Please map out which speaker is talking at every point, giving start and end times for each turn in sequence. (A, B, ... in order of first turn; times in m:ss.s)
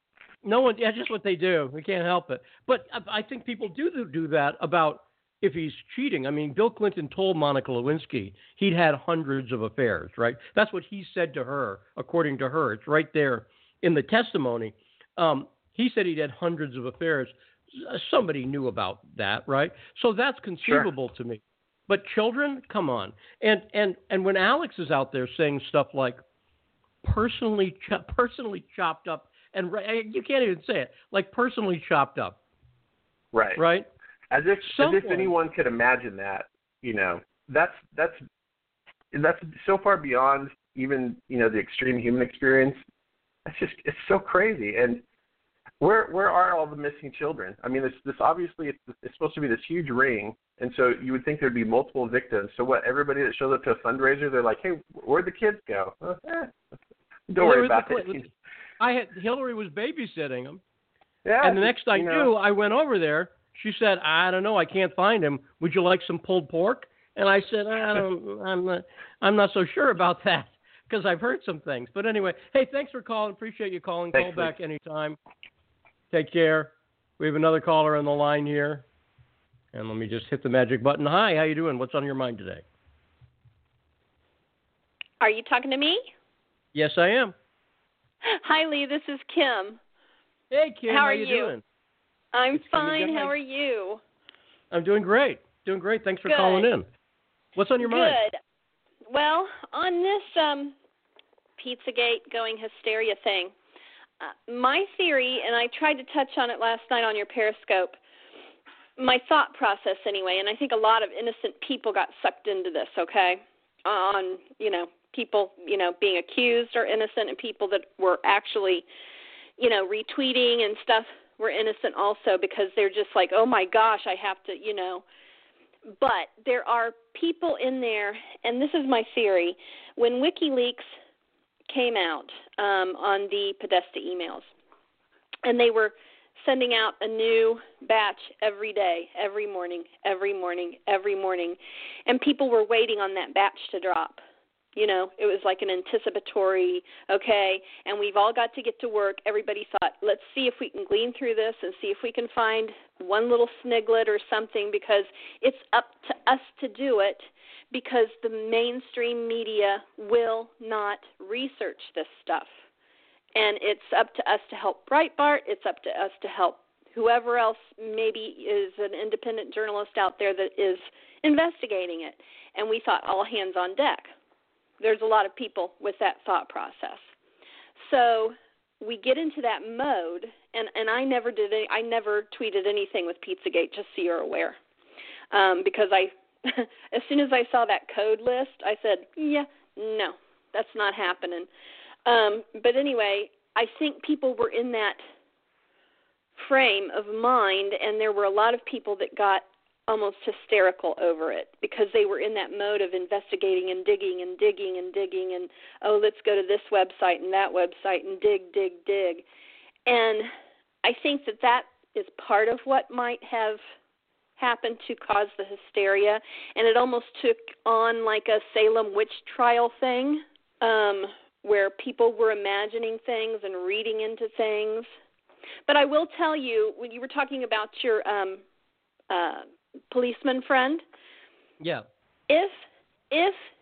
0:00.4-0:26.2 A
0:27.0-0:32.4 A
0:33.3-0:33.6 B
0:33.6-0:33.9 A
0:34.3-0:38.2 B
0:34.6-0:35.3 A
0:39.1-0:42.8 B
0:43.5-0:45.0 B
0:45.8-0:56.5 B
0:57.3-0:58.3 B
0:57.4-0:58.2 A
0:58.8-1:00.6 A
1:01.2-1:02.3 B
1:01.4-1:15.2 A
1:14.1-1:14.5 B
1:16.1-1:18.8 A
1:19.7-1:22.6 A
1:25.2-1:26.1 C
1:26.7-1:27.3 A
1:28.2-1:29.8 C
1:30.5-1:31.6 A
1:30.9-1:31.5 C
1:32.3-1:34.0 C
1:32.5-1:33.3 A
1:34.7-1:36.9 A
1:36.3-1:36.7 C
1:37.6-1:38.2 A
1:37.8-1:38.4 C
1:39.1-1:40.7 C
1:41.6-1:43.5 C
1:44.2-1:48.0 C
1:49.0-1:58.8 C
1:59.6-2:05.0 C
2:06.0-2:10.9 C
2:11.7-2:14.5 C
2:15.4-2:24.2 C
2:24.7-2:42.5 C
2:43.3-2:54.1 C
2:54.8-2:57.0 C
2:57.8-3:04.6 C
3:05.3-3:11.5 C
3:12.0-3:15.0 C
3:16.4-3:29.2 C
3:29.8-3:30.3 C
3:30.8-3:33.6 C
3:34.4-3:44.9 C
3:45.7-3:48.4 C
3:49.1-3:50.8 C
3:51.6-3:51.8 A
3:52.3-3:52.6 C
3:53.1-3:53.4 C